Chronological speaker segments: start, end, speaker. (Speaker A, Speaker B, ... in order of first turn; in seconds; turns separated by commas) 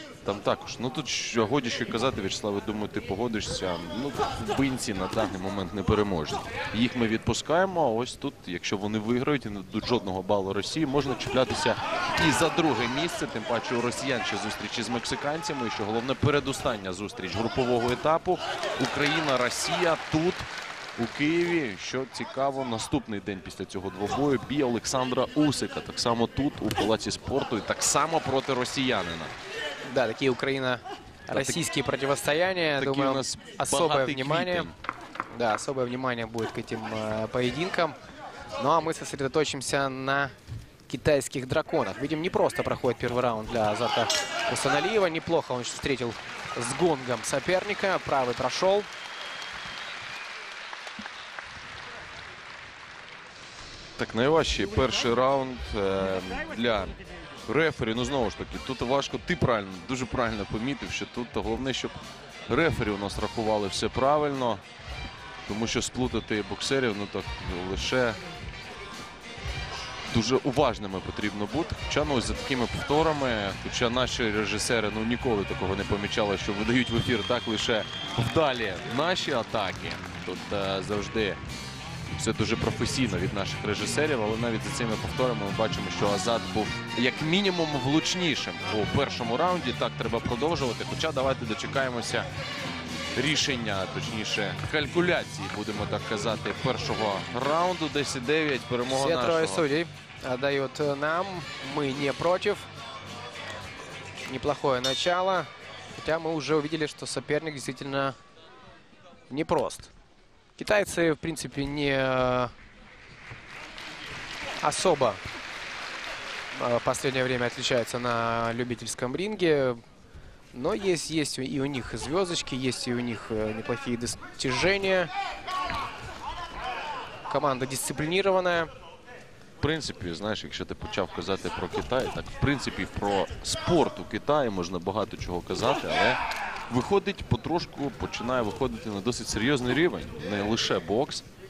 Speaker A: 0.2-29.3, Speaker B: 29.9-34.7, Speaker A: 31.3-31.6, Speaker A: 32.8-34.8, Speaker B: 35.3-38.0, Speaker B: 38.6-40.3, Speaker B: 40.9-48.9, Speaker A: 54.0-64.6, Speaker A: 65.5-68.2, Speaker A: 70.1-81.4, Speaker A: 82.2-92.3, Speaker A: 93.2-99.7, Speaker B: 98.9-102.7, Speaker B: 104.3-108.2, Speaker B: 109.3-109.9, Speaker B: 110.6-112.5, Speaker B: 114.6-115.2, Speaker B: 116.5-119.8, Speaker B: 120.5-125.1, Speaker B: 127.3-128.7, Speaker A: 129.6-141.3